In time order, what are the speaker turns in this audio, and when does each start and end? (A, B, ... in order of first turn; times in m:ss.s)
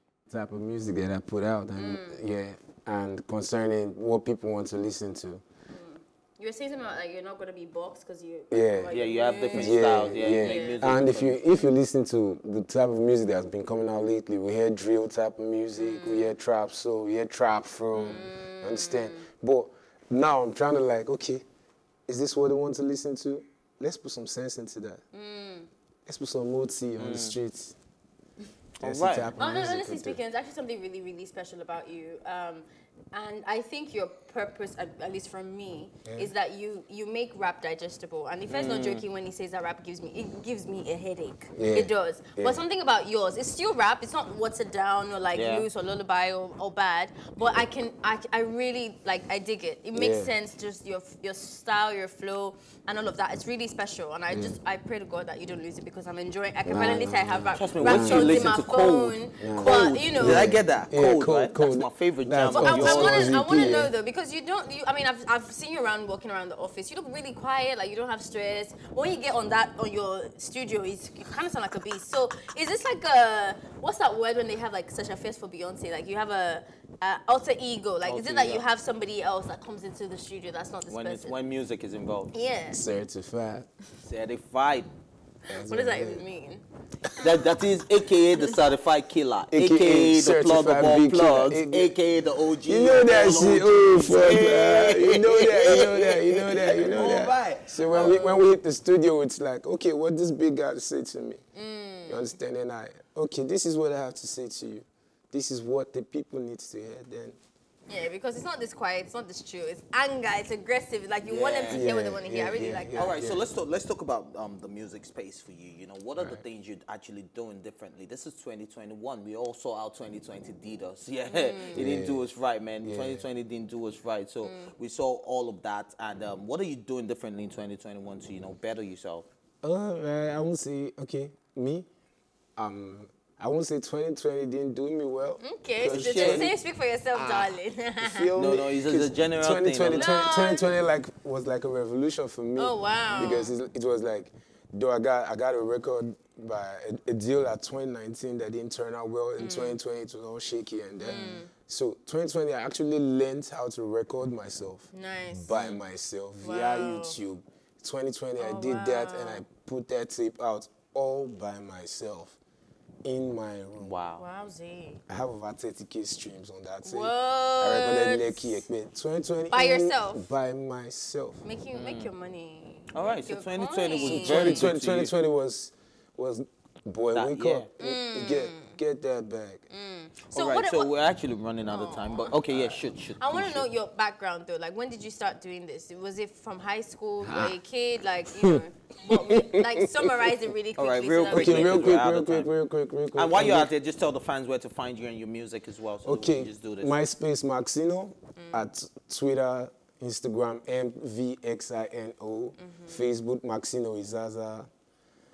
0:00.3-0:05.4 A
0:01.8-0:02.2 B
0:05.7-0:10.8 B
0:08.5-0:21.4 A
0:08.9-0:11.5 C
0:15.8-0:16.3 B
0:17.9-0:19.2 B
0:22.1-0:25.0 A
0:25.1-0:25.7 B
0:26.0-0:27.8 A
0:27.0-0:27.4 C
0:28.8-0:29.3 C
0:28.8-0:30.2 A
0:29.4-1:00.6 B
0:36.0-0:36.3 A
0:38.5-0:39.0 C
0:41.5-0:42.6 A
0:45.3-0:45.7 C
0:49.9-0:50.3 A
0:54.3-0:54.6 A
0:56.7-0:58.6 A
0:57.6-1:03.4 C
0:59.3-1:03.9 A
1:02.5-1:21.3 B
1:18.0-1:18.6 C
1:20.9-1:22.3 C
1:22.3-1:22.8 B
1:22.7-1:23.7 A
1:24.0-1:24.9 C
1:25.5-1:26.2 A
1:25.6-1:26.6 B
1:27.2-1:38.3 C
1:29.5-1:32.0 A
1:32.6-1:41.4 A
1:37.9-1:38.4 B
1:41.5-1:42.3 B
1:42.0-1:47.4 A
1:47.9-1:53.2 B
1:51.2-1:51.8 C
1:51.7-1:53.4 A
1:52.9-2:09.3 C
1:56.2-1:56.4 A
2:01.3-2:01.8 B
2:01.7-2:02.3 A
2:02.8-2:03.2 A
2:04.4-2:04.7 B
2:09.6-2:11.9 A
2:12.6-2:16.5 A
2:15.4-2:18.4 B
2:15.8-2:16.5 C
2:17.1-2:17.6 C
2:18.0-2:42.4 A
2:18.3-2:20.1 C
2:20.0-2:20.7 B
2:22.6-2:23.5 B
2:23.1-2:23.4 C
2:29.4-2:29.8 B
2:31.0-2:31.5 B
2:34.9-2:35.5 B
2:35.5-2:35.8 C
2:36.4-2:37.2 B
2:38.4-2:39.4 B
2:43.0-2:44.0 A
2:43.8-2:44.2 C
2:44.2-2:45.0 B
2:45.1-2:51.4 A
2:46.8-2:48.6 B
2:49.5-2:50.3 B
2:51.4-2:54.6 B
2:51.7-2:52.1 C
2:52.9-2:55.1 C
2:54.0-2:59.6 A
2:57.1-2:57.7 C
2:57.8-2:58.8 B
2:59.7-3:00.9 B
3:00.3-3:03.7 C
3:01.7-3:11.8 B
3:07.2-3:07.6 A
3:09.1-3:10.4 A
3:10.8-3:12.5 C
3:11.3-3:13.7 A
3:13.1-3:16.9 C
3:16.0-3:24.7 A
3:18.4-3:18.7 B
3:22.6-3:23.0 B